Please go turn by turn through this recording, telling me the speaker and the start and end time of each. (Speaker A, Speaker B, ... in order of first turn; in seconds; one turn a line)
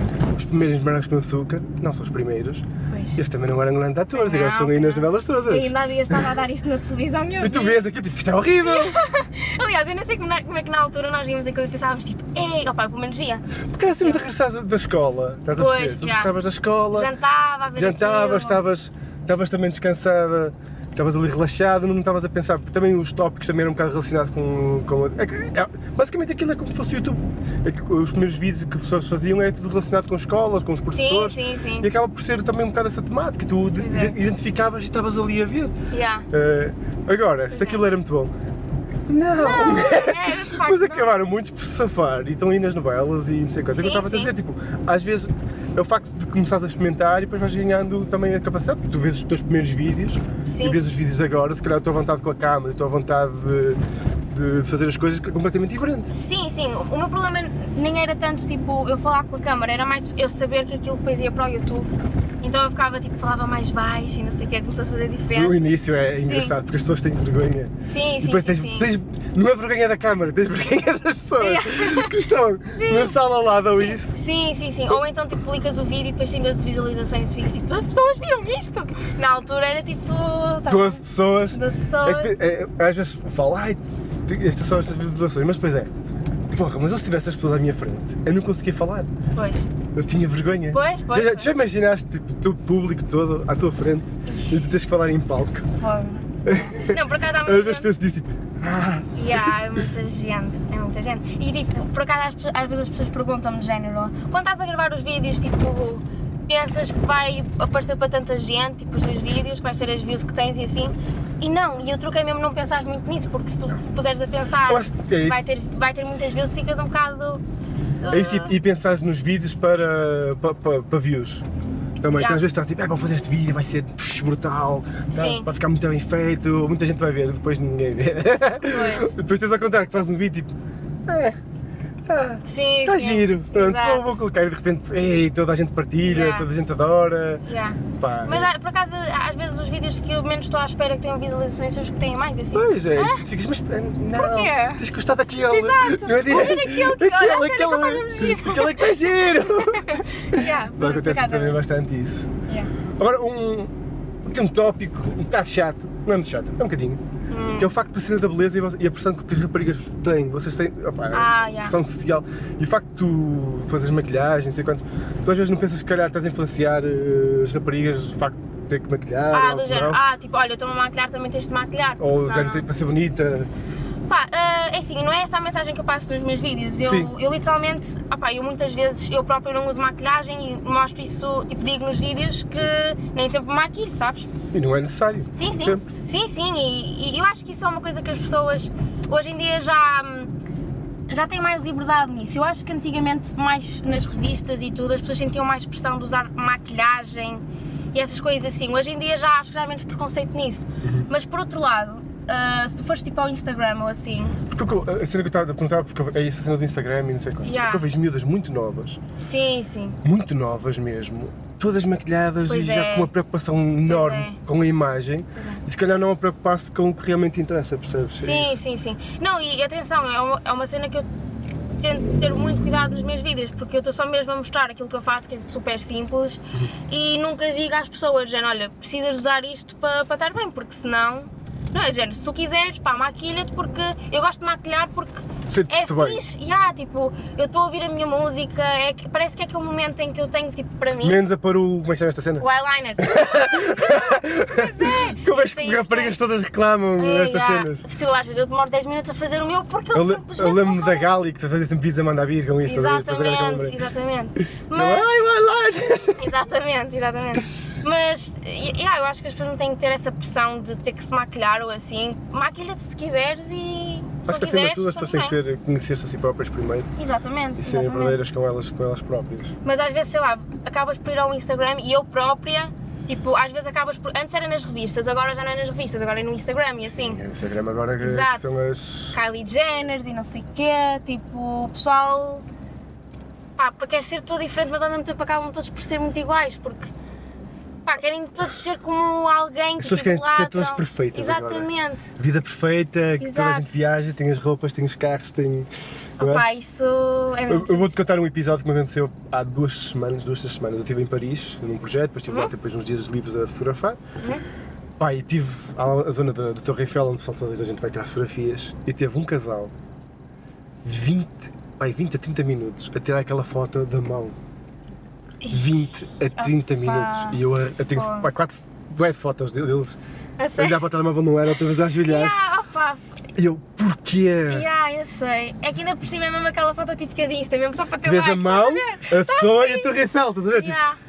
Speaker A: 0.3-6.2
Speaker B: 2.9-3.2
Speaker B: 4.1-7.8
Speaker A: 7.4-9.0
Speaker B: 8.6-13.4
Speaker A: 13.7-17.1
Speaker B: 14.0-14.3
Speaker B: 15.6-16.4
Speaker B: 16.9-18.6
Speaker A: 17.8-35.8
Speaker B: 30.9-31.9
Speaker B: 33.8-34.1
Speaker B: 35.9-36.3
Speaker A: 36.3-38.3
Speaker B: 37.5-37.8
Speaker A: 39.1-53.8
Speaker B: 39.3-41.1
Speaker B: 43.7-44.3
Speaker B: 50.5-50.8
Speaker A: 54.3-56.1
Speaker B: 56.1-61.9
Speaker B: 62.4-65.6
Speaker A: 65.3-74.1
Speaker B: 66.2-66.5
Speaker B: 67.8-68.9
Speaker B: 71.4-72.2
Speaker B: 72.7-73.2
Speaker B: 73.7-82.3
Speaker A: 80.7-85.9
Speaker A: 86.5-89.1
Speaker B: 89.3-89.7
Speaker A: 89.9-95.7
Speaker B: 90.7-91.5
Speaker B: 94.3-94.7
Speaker B: 95.8-97.9
Speaker A: 96.5-99.4
Speaker B: 99.2-117.4
Speaker A: 114.7-115.4
Speaker B: 118.0-118.6
Speaker A: 118.1-121.4
Speaker A: 122.0-130.5
Speaker B: 122.2-122.4
Speaker B: 125.1-125.5
Speaker B: 128.7-129.1
Speaker A: 131.1-131.4
Speaker A: 132.1-137.4
Speaker B: 132.4-134.2
Speaker B: 136.0-136.5
Speaker B: 137.5-143.2
Speaker A: 138.0-138.5
Speaker A: 142.5-152.3
Speaker B: 144.2-144.8
Speaker B: 145.5-151.6
Speaker B: 152.5-152.7
Speaker A: 153.0-153.7
Speaker A: 154.2-157.0
Speaker B: 157.3-157.7
Speaker A: 157.6-170.0
Speaker B: 161.1-161.8
Speaker B: 169.3-172.7
Speaker A: 172.0-173.5
Speaker B: 174.1-184.3
Speaker A: 176.8-177.1
Speaker A: 184.5-185.9
Speaker B: 185.3-190.3
Speaker B: 191.1-204.4
Speaker A: 200.8-201.1
Speaker A: 204.5-209.0
Speaker B: 207.4-207.8
Speaker B: 209.2-210.0
Speaker A: 210.0-218.6
Speaker B: 212.5-213.1
Speaker B: 213.9-214.4
Speaker B: 218.2-221.1
Speaker B: 221.8-241.2
Speaker A: 235.5-236.2
Speaker A: 241.0-242.5
Speaker B: 242.4-246.3
Speaker A: 243.0-247.8
Speaker B: 247.0-251.1
Speaker A: 249.9-253.8
Speaker B: 252.7-255.2
Speaker A: 254.7-256.3
Speaker B: 256.2-265.4
Speaker A: 264.2-266.9
Speaker B: 267.0-268.2
Speaker A: 267.6-269.5
Speaker B: 269.6-277.2
Speaker A: 276.9-279.2
Speaker B: 278.0-278.6
Speaker B: 279.1-282.4
Speaker B: 283.6-286.9
Speaker B: 287.9-292.1
Speaker A: 289.8-295.7
Speaker B: 293.2-293.7
Speaker B: 296.2-298.0
Speaker A: 296.2-296.4
Speaker A: 297.5-304.0
Speaker A: 305.0-309.7
Speaker A: 310.9-314.4
Speaker B: 315.4-317.4
Speaker A: 315.5-320.0
Speaker B: 317.9-318.3
Speaker B: 320.4-320.8
Speaker A: 320.6-322.4
Speaker B: 322.0-323.2
Speaker A: 323.4-324.7
Speaker B: 324.5-329.9
Speaker A: 328.0-330.8
Speaker B: 330.5-331.0